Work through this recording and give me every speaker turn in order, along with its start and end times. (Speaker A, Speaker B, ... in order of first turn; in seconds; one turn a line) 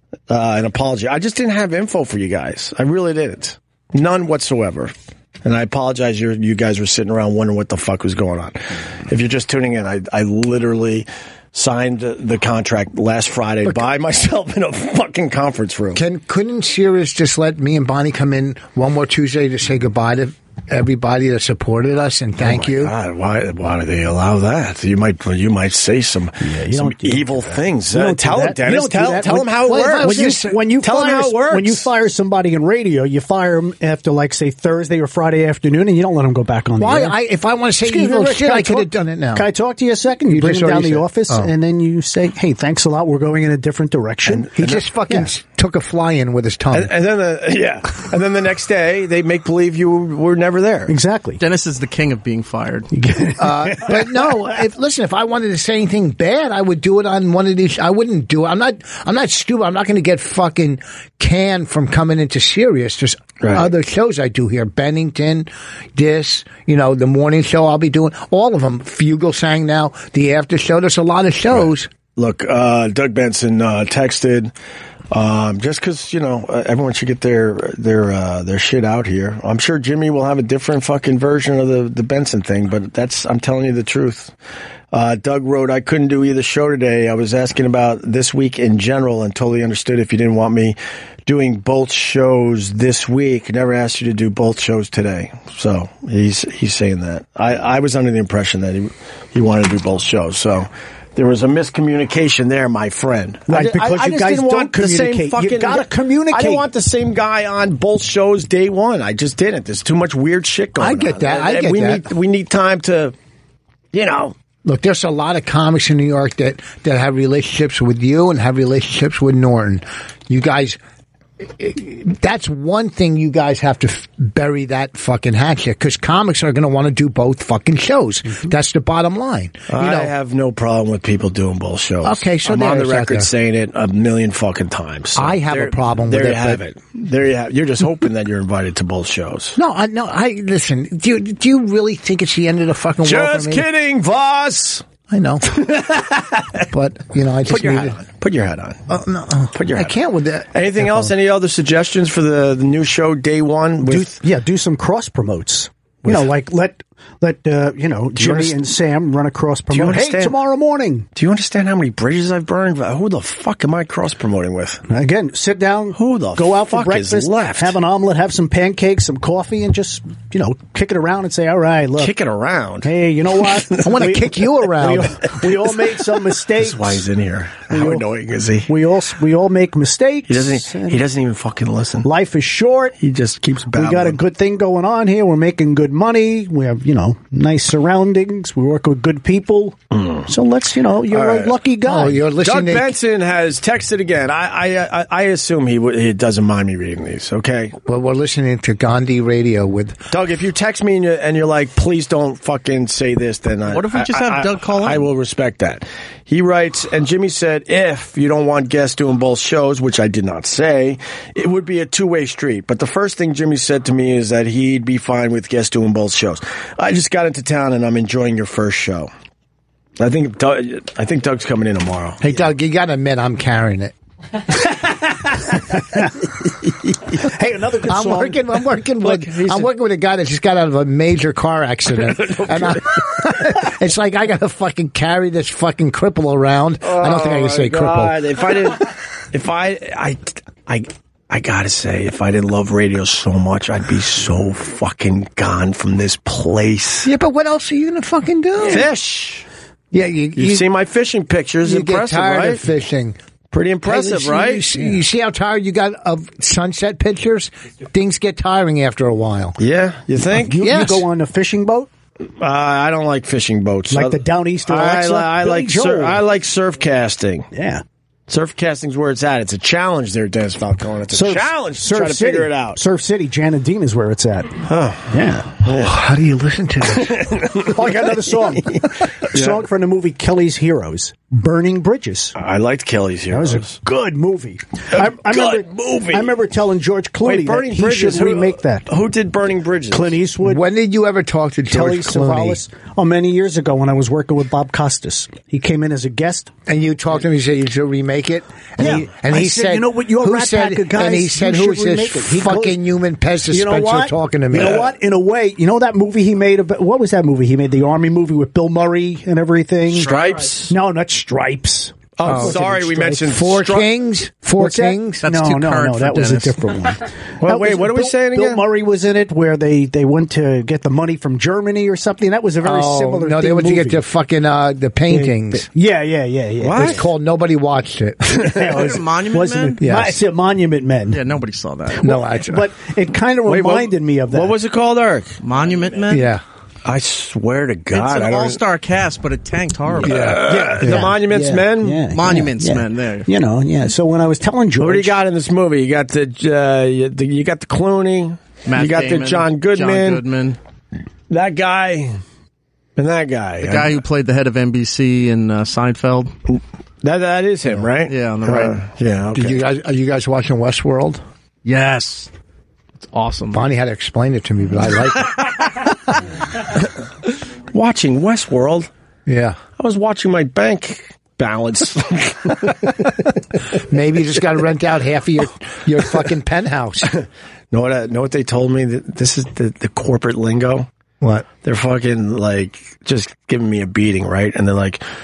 Speaker A: 0.3-16.0
Speaker B: 15.9-22.9
Speaker A: 22.4-31.9
Speaker C: 26.4-37.2
Speaker B: 29.6-30.6
Speaker B: 36.8-39.5
Speaker C: 37.8-44.5
Speaker B: 40.3-41.5
Speaker B: 44.3-46.9
Speaker A: 44.6-44.8
Speaker A: 46.7-50.9
Speaker C: 50.9-51.4
Speaker D: 51.4-52.9
Speaker C: 52.9-54.3
Speaker B: 53.4-71.9
Speaker A: 63.4-63.7
Speaker A: 71.5-74.5
Speaker A: 75.1-84.3
Speaker A: 84.9-113.1
Speaker C: 103.5-106.7
Speaker B: 110.8-112.1
Speaker A: 113.9-114.3
Speaker B: 114.6-120.8
Speaker B: 121.4-130.1
Speaker A: 129.7-139.6
Speaker B: 132.0-133.3
Speaker B: 135.2-136.6
Speaker B: 139.6-143.7
Speaker A: 143.0-144.8
Speaker B: 145.1-145.6
Speaker A: 145.4-146.6
Speaker B: 146.7-148.0
Speaker A: 147.4-148.8
Speaker B: 148.9-151.1
Speaker A: 149.5-149.9
Speaker A: 150.5-154.2
Speaker C: 153.8-161.1
Speaker A: 156.0-156.3
Speaker A: 158.1-158.7
Speaker A: 159.7-160.4
Speaker A: 161.1-164.8
Speaker C: 164.9-172.1
Speaker A: 165.9-167.8
Speaker A: 172.0-174.1
Speaker C: 172.8-177.0
Speaker B: 173.8-175.3
Speaker A: 176.6-178.7
Speaker C: 177.7-178.1
Speaker C: 178.7-181.0
Speaker A: 180.3-182.1
Speaker C: 182.0-182.9
Speaker A: 183.0-184.2
Speaker C: 183.7-192.2
Speaker A: 189.9-190.3
Speaker A: 191.1-191.6
Speaker B: 191.8-193.0
Speaker A: 192.4-197.7
Speaker B: 197.8-200.0
Speaker A: 200.1-219.1
Speaker D: 203.7-205.0
Speaker A: 220.0-222.3
Speaker B: 222.2-223.9
Speaker C: 224.6-226.1
Speaker C: 227.1-228.4
Speaker B: 227.9-238.2
Speaker A: 229.0-229.7
Speaker A: 232.1-233.0
Speaker A: 236.8-247.1
Speaker B: 247.0-248.9
Speaker A: 248.6-249.5
Speaker B: 249.9-250.7
Speaker A: 250.3-252.6
Speaker B: 251.6-253.2
Speaker A: 253.5-254.8
Speaker B: 253.8-259.6
Speaker A: 259.6-260.6
Speaker C: 260.4-261.9
Speaker B: 260.6-261.0
Speaker A: 262.2-267.5
Speaker C: 263.9-266.2
Speaker C: 267.5-267.8
Speaker A: 268.3-272.8
Speaker C: 271.1-275.6
Speaker A: 274.6-276.0
Speaker B: 275.7-277.5
Speaker A: 276.9-279.6
Speaker C: 277.6-282.4
Speaker A: 282.3-283.8
Speaker C: 283.3-288.9
Speaker A: 284.9-286.3
Speaker A: 287.2-290.1
Speaker C: 289.9-290.6
Speaker B: 290.4-292.6
Speaker C: 291.7-296.5
Speaker B: 296.7-304.8
Speaker C: 298.8-302.8
Speaker C: 303.5-310.1
Speaker A: 304.5-304.9
Speaker A: 309.9-310.8
Speaker C: 310.6-313.3
Speaker A: 312.2-313.9
Speaker B: 312.2-312.6
Speaker B: 313.2-315.2
Speaker C: 314.6-324.0
Speaker D: 315.2-316.6
Speaker A: 317.4-318.7
Speaker B: 322.6-325.7
Speaker C: 325.1-327.1
Speaker A: 326.6-327.1
Speaker B: 326.7-328.4
Speaker C: 328.3-331.2
Speaker D: 328.7-329.8
Speaker B: 329.8-330.2
Speaker D: 331.1-332.1
Speaker C: 331.9-334.6
Speaker B: 332.0-332.6
Speaker A: 333.4-335.4
Speaker D: 335.4-336.3
Speaker B: 336.1-336.4
Speaker A: 336.8-338.6
Speaker D: 337.9-340.7
Speaker A: 340.0-342.0
Speaker B: 340.0-341.1
Speaker C: 340.7-345.2
Speaker D: 342.1-343.3
Speaker A: 344.8-350.2
Speaker D: 348.6-350.6
Speaker A: 351.3-352.2
Speaker A: 352.9-353.9
Speaker D: 353.6-356.3
Speaker A: 356.5-359.6
Speaker D: 358.1-358.8
Speaker B: 359.3-361.2
Speaker D: 361.6-362.3
Speaker D: 363.0-363.6
Speaker B: 363.5-365.8
Speaker A: 367.7-368.9
Speaker B: 369.3-369.6
Speaker A: 369.8-373.1
Speaker B: 373.8-377.1
Speaker A: 377.1-380.9
Speaker B: 381.2-381.4
Speaker A: 381.6-385.0